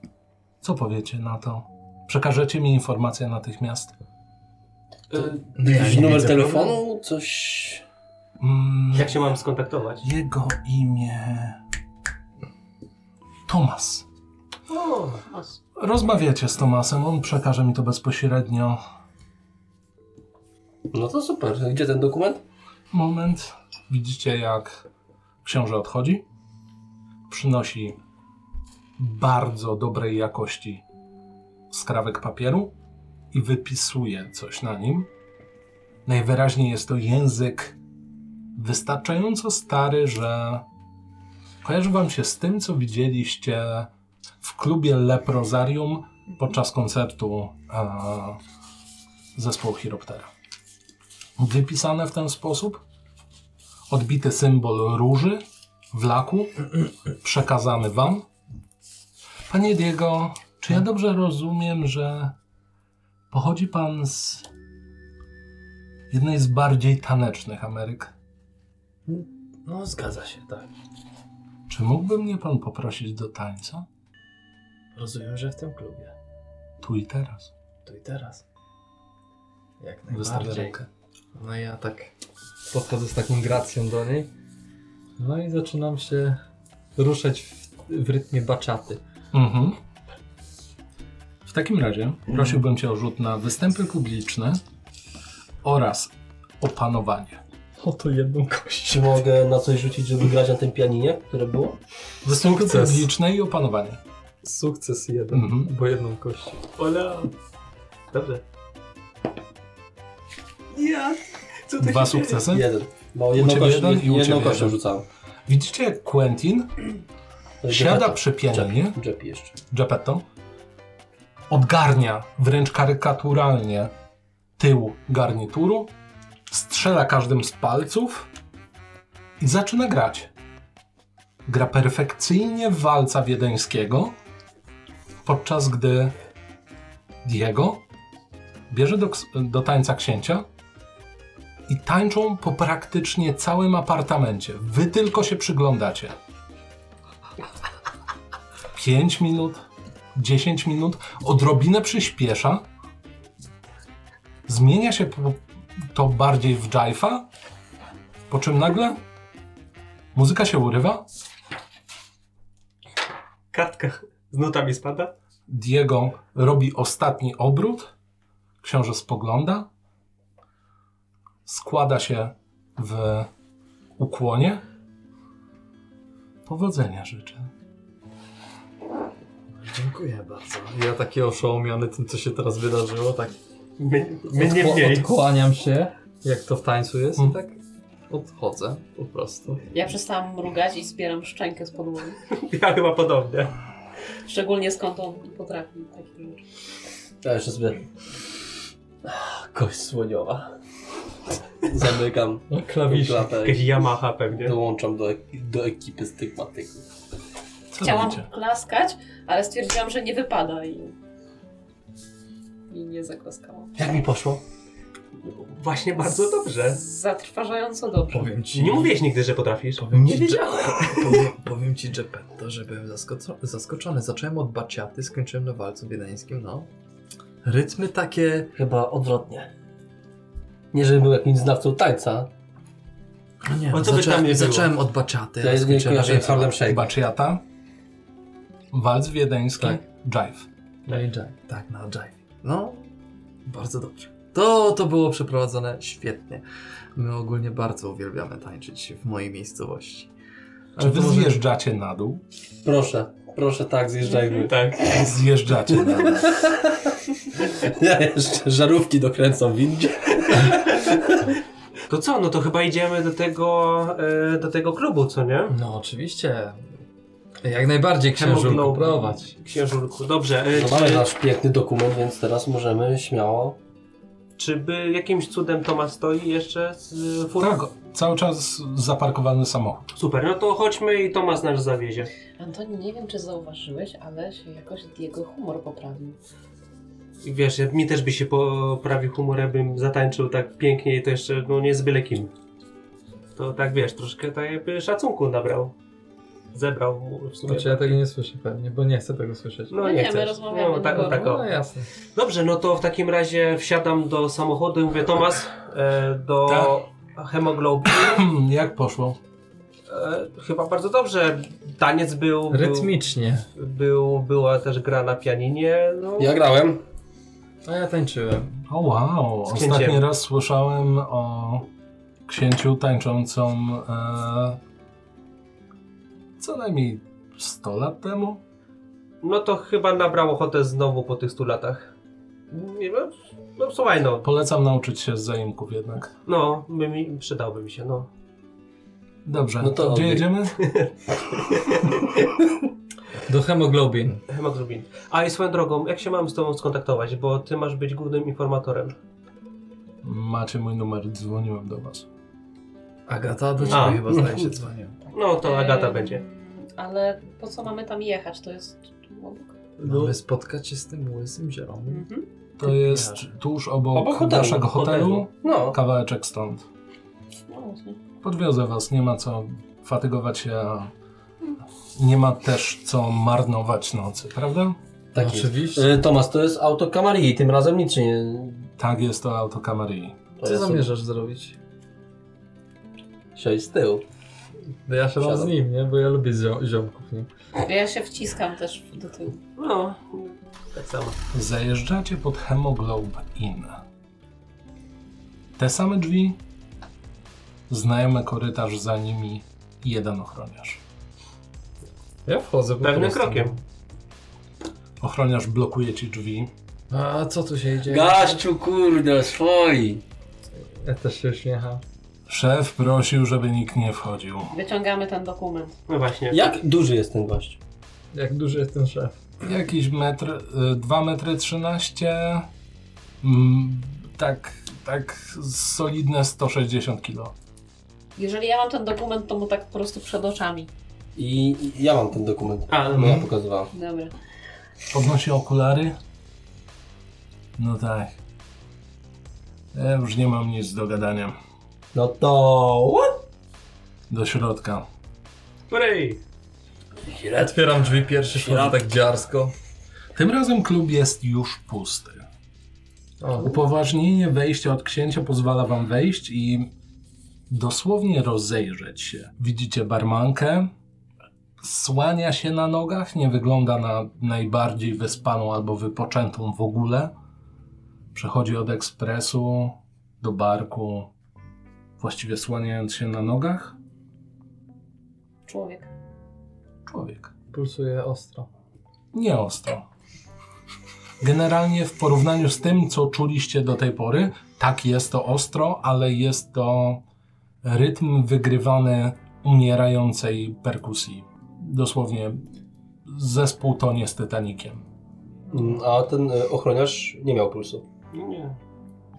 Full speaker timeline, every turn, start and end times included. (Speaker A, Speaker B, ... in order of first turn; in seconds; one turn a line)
Speaker A: 0.6-3.9
Speaker B: 5.1-6.0
Speaker C: 5.5-6.8
Speaker D: 5.6-7.8
Speaker A: 8.4-9.3
Speaker B: 8.9-10.0
Speaker A: 10.0-11.6
Speaker A: 13.5-14.1
Speaker B: 14.7-15.6
Speaker A: 15.8-18.8
Speaker D: 20.9-22.4
Speaker A: 22.9-24.8
Speaker A: 25.4-26.2
Speaker A: 27.3-28.0
Speaker A: 29.0-30.8
Speaker A: 31.7-32.7
Speaker A: 33.3-35.1
Speaker A: 36.0-37.8
Speaker A: 38.5-40.6
Speaker A: 41.6-43.9
Speaker A: 44.4-48.4
Speaker A: 49.3-50.3
Speaker A: 51.4-52.8
Speaker A: 53.9-58.3
Speaker A: 59.5-62.3
Speaker A: 63.3-64.5
Speaker A: 66.1-68.1
Speaker C: 69.1-70.7
Speaker A: 71.7-73.8
Speaker C: 74.9-76.1
Speaker A: 76.8-77.5
Speaker C: 77.8-78.4
Speaker C: 79.8-80.8
Speaker A: 80.1-80.9
Speaker C: 81.3-82.1
Speaker C: 82.7-84.3
Speaker C: 85.2-86.4
Speaker C: 87.0-89.0
Speaker A: 89.3-89.8
Speaker A: 91.4-94.6
Speaker A: 95.6-97.4
Speaker C: 97.8-99.2
Speaker D: 98.9-101.8
Speaker A: 102.2-104.0
Speaker C: 102.2-103.1
Speaker C: 104.4-106.7
Speaker A: 105.3-105.7
Speaker B: 106.8-107.3
Speaker B: 108.1-108.4
Speaker B: 110.7-112.5
Speaker A: 111.8-112.7
Speaker D: 112.5-115.0
Speaker A: 113.3-114.8
Speaker A: 115.5-116.8
Speaker D: 117.6-119.5
Speaker A: 117.7-119.0
Speaker A: 119.7-120.2
Speaker A: 121.5-123.9
Speaker A: 124.6-125.9
Speaker A: 126.5-128.3
Speaker A: 129.4-130.3
Speaker A: 131.4-134.2
Speaker A: 135.2-136.1
Speaker A: 137.2-137.8
Speaker A: 138.7-140.4
Speaker A: 141.7-146.1
Speaker A: 148.7-149.6
Speaker A: 150.1-152.6
Speaker A: 154.5-157.3
Speaker A: 158.3-159.0
Speaker A: 160.1-161.0
Speaker B: 163.5-165.1
Speaker A: 165.5-167.9
Speaker A: 168.6-169.7
Speaker A: 171.4-173.3
Speaker A: 174.0-174.6
Speaker A: 176.4-177.5
Speaker C: 179.5-183.3
Speaker B: 183.8-185.1
Speaker C: 184.3-187.6
Speaker C: 188.1-189.6
Speaker E: 189.7-192.2
Speaker B: 192.3-193.5
Speaker E: 194.2-196.4
Speaker D: 197.2-197.8
Speaker D: 199.0-200.5
Speaker D: 201.6-203.7
Speaker C: 202.5-203.3
Speaker B: 203.4-204.6
Speaker D: 204.4-206.9
Speaker A: 207.7-208.3
Speaker E: 207.8-210.9
Speaker E: 212.7-213.7
Speaker D: 213.8-214.4
Speaker B: 215.3-216.8
Speaker E: 216.7-218.3
Speaker C: 218.1-218.9
Speaker B: 218.5-220.0
Speaker C: 219.8-226.7
Speaker D: 219.9-220.8
Speaker C: 227.4-228.5
Speaker D: 228.6-229.5
Speaker D: 230.7-232.3
Speaker C: 233.4-236.6
Speaker B: 233.7-234.7
Speaker D: 235.4-236.9
Speaker A: 236.6-237.4
Speaker A: 238.7-240.4
Speaker C: 240.8-242.8
Speaker C: 243.4-246.4
Speaker C: 246.9-250.1
Speaker C: 250.7-251.4
Speaker A: 250.8-252.2
Speaker D: 252.6-255.0
Speaker B: 254.3-254.9
Speaker A: 254.9-256.4
Speaker D: 255.8-261.2
Speaker B: 261.9-265.5
Speaker C: 265.5-266.7
Speaker C: 267.4-269.2
Speaker B: 268.1-271.1
Speaker D: 270.5-273.6
Speaker B: 274.4-277.6
Speaker A: 277.4-279.9
Speaker B: 279.9-282.1
Speaker E: 282.4-286.2
Speaker B: 287.2-292.3
Speaker B: 293.4-295.7
Speaker B: 296.5-298.0
Speaker C: 297.4-300.1
Speaker B: 299.7-301.5
Speaker E: 299.8-301.4
Speaker C: 300.8-301.9
Speaker B: 302.1-308.3
Speaker A: 306.4-306.8
Speaker A: 307.8-309.2
Speaker B: 309.9-312.9
Speaker C: 312.5-313.5
Speaker B: 313.6-316.4
Speaker D: 316.2-316.8
Speaker C: 317.6-318.6
Speaker A: 318.7-321.7
Speaker B: 319.5-320.0
Speaker A: 322.3-324.6
Speaker A: 326.4-328.4
Speaker B: 329.2-331.9
Speaker B: 332.5-334.2
Speaker A: 334.2-336.1
Speaker B: 336.2-338.1
Speaker A: 339.2-340.6
Speaker D: 339.6-340.3
Speaker B: 341.5-341.8
Speaker C: 343.2-344.2
Speaker B: 344.3-348.9
Speaker A: 350.0-352.1
Speaker C: 353.1-354.9
Speaker E: 353.6-354.0
Speaker B: 353.7-354.3
Speaker B: 355.1-356.2
Speaker E: 355.4-359.6
Speaker C: 359.8-362.0
Speaker D: 359.9-360.1
Speaker E: 361.9-362.2
Speaker A: 362.6-366.6
Speaker C: 362.6-363.3
Speaker D: 363.9-365.8
Speaker B: 364.7-365.2
Speaker E: 367.5-368.0
Speaker A: 368.2-370.9
Speaker A: 371.9-374.8
Speaker D: 375.1-378.7
Speaker C: 375.1-375.9
Speaker A: 378.8-380.2
Speaker D: 380.4-380.9
Speaker C: 380.4-381.6
Speaker D: 383.3-384.0
Speaker C: 384.9-387.3
Speaker D: 385.2-385.5
Speaker E: 387.6-389.4
Speaker B: 389.6-391.2
Speaker A: 391.3-393.8
Speaker A: 395.6-396.4
Speaker A: 397.7-400.8
Speaker C: 402.2-403.6
Speaker B: 402.8-403.6
Speaker A: 405.0-406.5
Speaker C: 406.9-408.4
Speaker D: 407.9-410.0
Speaker C: 410.5-411.8
Speaker A: 412.3-414.5
Speaker E: 414.5-415.8
Speaker B: 415.9-416.5
Speaker D: 416.3-417.6
Speaker C: 418.1-419.2
Speaker A: 419.4-422.5
Speaker A: 423.2-427.3
Speaker E: 428.1-430.7
Speaker D: 431.1-433.7
Speaker B: 432.7-433.3
Speaker A: 432.9-433.2
Speaker E: 433.7-434.1
Speaker A: 434.9-436.0
Speaker A: 437.6-438.1
Speaker A: 439.7-441.4
Speaker D: 441.9-443.2
Speaker A: 444.1-444.9
Speaker B: 445.7-446.2
Speaker D: 447.1-447.5
Speaker C: 447.3-449.5
Speaker D: 448.3-448.8
Speaker A: 450.1-452.3
Speaker C: 453.2-453.6
Speaker A: 453.4-456.7
Speaker A: 457.5-460.7
Speaker A: 461.6-467.1
Speaker A: 468.1-471.1
Speaker A: 472.0-473.8
Speaker E: 475.4-475.9
Speaker A: 476.9-477.3
Speaker C: 477.5-478.5
Speaker A: 479.1-479.8
Speaker A: 481.2-487.0
Speaker A: 487.6-492.4
Speaker A: 493.1-494.8
Speaker D: 495.5-497.8
Speaker B: 498.1-498.6